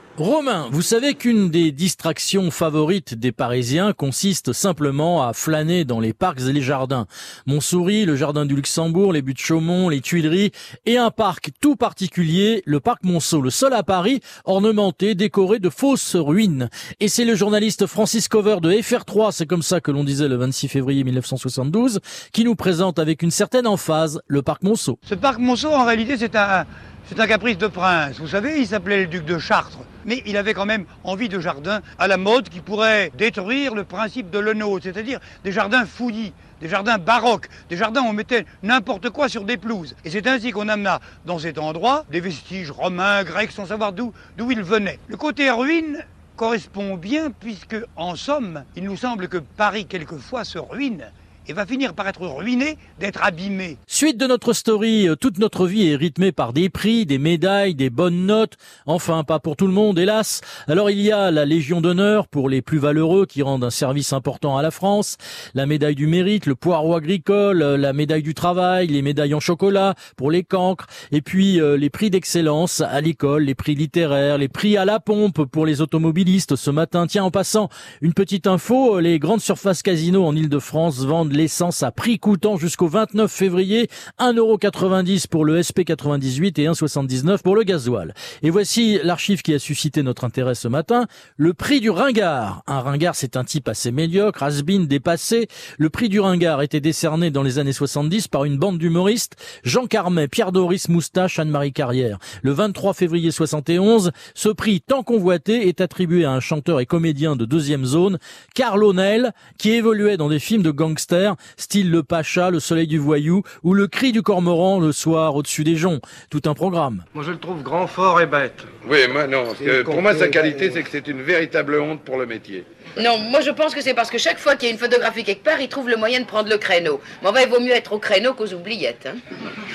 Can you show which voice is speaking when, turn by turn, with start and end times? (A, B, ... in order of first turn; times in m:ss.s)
0:00.2-0:25.0 A
0:25.1-0:53.8 B
0:53.9-1:57.0 A
1:57.1-1:58.7 C
1:58.8-2:02.7 D
1:59.6-2:00.8 C
2:03.0-2:09.2 E